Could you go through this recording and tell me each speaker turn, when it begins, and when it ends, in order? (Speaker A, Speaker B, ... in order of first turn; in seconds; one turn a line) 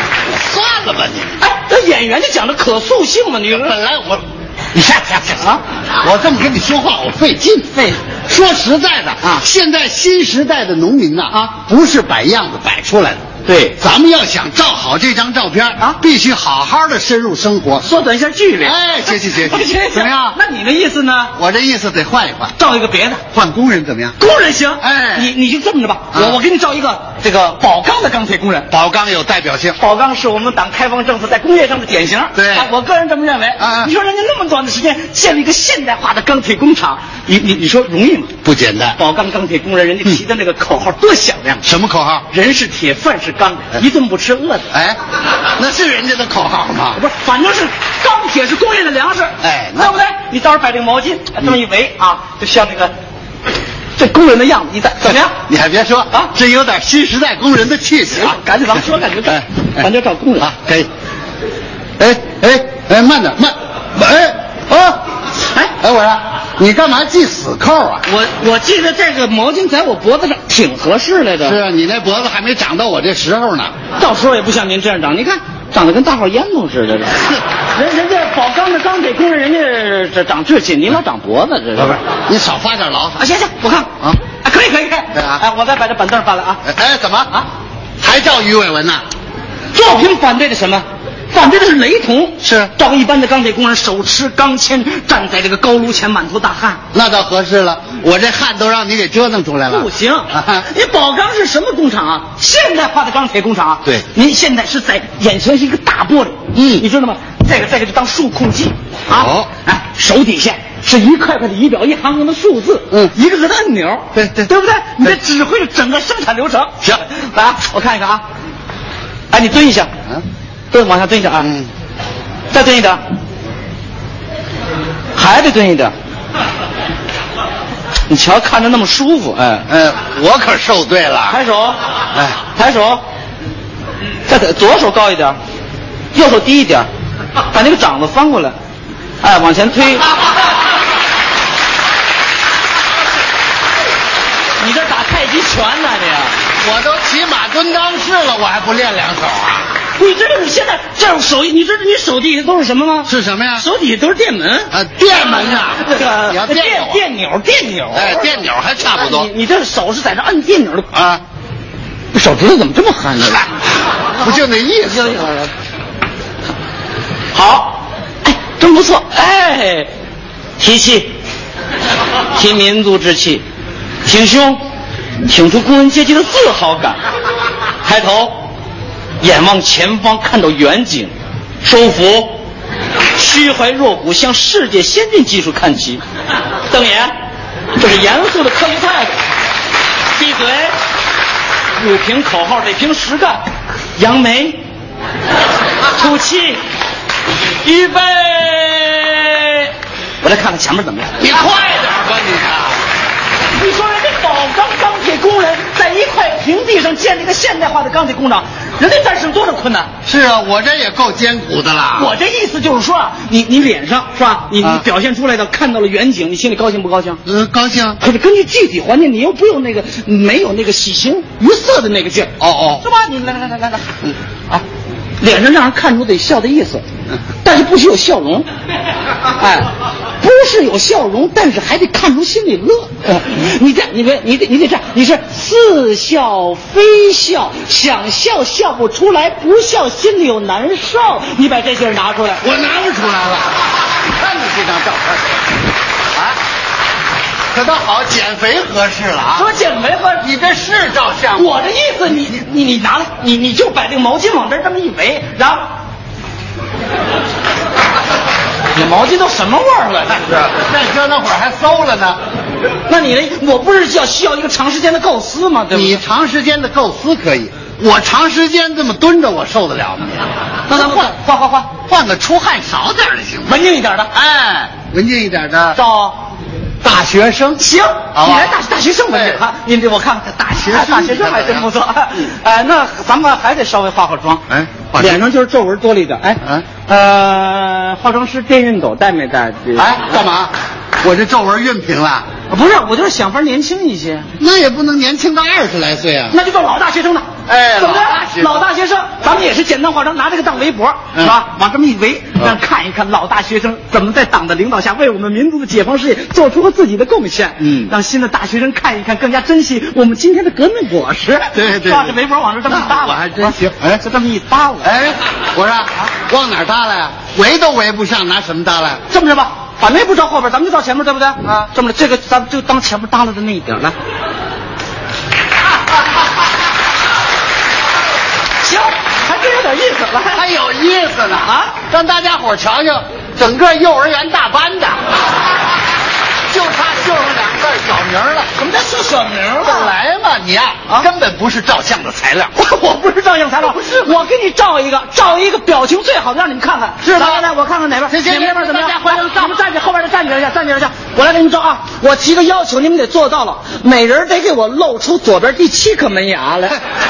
Speaker A: 0.3-1.4
Speaker B: 1.4-3.8
Speaker A: 3.5-13.2
Speaker B: 13.4-13.8
Speaker A: 13.8-17.9
Speaker B: 17.8-21.3
Speaker A: 18.6-20.4
Speaker A: 21.4-22.6
Speaker B: 22.6-23.3
Speaker A: 23.3-24.2
Speaker B: 24.2-28.7
Speaker A: 24.8-25.3
Speaker A: 26.1-26.4
Speaker A: 28.7-29.8
Speaker B: 29.8-38.3
Speaker A: 32.4-32.7
Speaker A: 33.6-33.9
Speaker A: 38.4-39.0
Speaker B: 39.0-41.7
Speaker A: 41.6-42.3
Speaker B: 42.3-44.7
Speaker A: 44.7-47.0
Speaker B: 47.0-52.9
Speaker A: 49.4-50.0
Speaker B: 54.0-55.4
Speaker A: 55.3-58.4
Speaker B: 58.1-60.5
Speaker A: 59.3-59.9
Speaker A: 60.4-60.9
Speaker A: 62.0-64.5
Speaker B: 64.7-65.7
Speaker A: 65.8-68.0
Speaker B: 68.0-71.6
Speaker A: 71.4-73.7
Speaker B: 74.0-82.0
Speaker A: 81.8-83.2
Speaker B: 83.2-86.6
Speaker A: 85.1-85.4
Speaker A: 86.7-87.3
Speaker A: 88.0-89.0
Speaker B: 89.7-96.8
Speaker A: 92.4-92.7
Speaker A: 96.9-100.7
Speaker B: 99.7-118.2
Speaker A: 106.5-106.9
Speaker A: 109.1-109.5
Speaker A: 114.1-114.5
Speaker B: 119.3-119.9
Speaker B: 120.7-121.5
Speaker A: 121.4-121.7
Speaker B: 122.5-123.0
Speaker B: 125.2-125.9
Speaker B: 128.1-129.7
Speaker A: 129.7-131.4
Speaker B: 131.3-131.8
Speaker A: 132.1-132.4
Speaker B: 132.4-133.0
Speaker B: 134.3-135.4
Speaker B: 136.1-136.9
Speaker B: 137.4-138.6
Speaker B: 139.2-140.1
Speaker B: 144.6-146.4
Speaker A: 146.6-149.7
Speaker B: 150.0-160.9
Speaker A: 153.1-153.7
Speaker A: 154.7-157.0
Speaker A: 157.9-159.3
Speaker A: 160.9-161.2
Speaker B: 162.1-163.5
Speaker A: 164.2-165.2
Speaker B: 164.9-165.5
Speaker B: 167.3-169.9
Speaker B: 170.6-171.1
Speaker B: 172.3-173.4
Speaker B: 174.0-174.6
Speaker B: 175.2-177.0
Speaker B: 177.8-178.3
Speaker B: 179.2-182.4
Speaker B: 183.1-186.0
Speaker B: 186.7-187.1
Speaker B: 187.8-189.2
Speaker B: 190.1-190.8
Speaker B: 191.8-193.4
Speaker B: 194.0-194.6
Speaker B: 195.8-196.6
Speaker B: 197.6-201.4
Speaker A: 201.2-202.8
Speaker B: 203.6-209.9
Speaker A: 210.1-212.1
Speaker B: 211.9-217.2
Speaker A: 217.3-218.0
Speaker B: 218.0-223.9
Speaker A: 222.4-222.9
Speaker B: 225.2-226.8
Speaker B: 227.4-228.5
Speaker B: 229.3-242.5
Speaker A: 242.4-245.4
Speaker A: 247.5-249.5
Speaker B: 249.3-250.3
Speaker A: 250.2-251.6
Speaker B: 251.3-255.6
Speaker B: 258.7-260.4
Speaker A: 260.2-262.2
Speaker B: 262.9-266.0
Speaker A: 265.7-271.1
Speaker B: 270.7-271.7
Speaker A: 271.9-273.6
Speaker B: 273.5-274.1
Speaker A: 274.1-275.8
Speaker B: 275.8-276.2
Speaker A: 276.8-277.6
Speaker B: 277.6-290.2
Speaker A: 278.1-279.4
Speaker A: 280.6-281.7
Speaker A: 284.5-285.2
Speaker A: 286.4-286.7
Speaker A: 289.8-292.3
Speaker B: 292.5-294.3
Speaker A: 294.4-296.4
Speaker B: 296.3-315.1
Speaker A: 297.5-298.7
Speaker A: 307.6-307.9
Speaker A: 311.5-314.0
Speaker A: 314.8-319.0
Speaker B: 319.1-323.9
Speaker B: 328.6-330.4
Speaker A: 330.3-335.1
Speaker B: 331.4-331.7
Speaker A: 336.5-338.5
Speaker B: 338.6-339.9
Speaker A: 339.6-342.5
Speaker B: 342.5-356.8
Speaker A: 343.8-344.1
Speaker A: 347.0-347.5
Speaker A: 348.1-349.5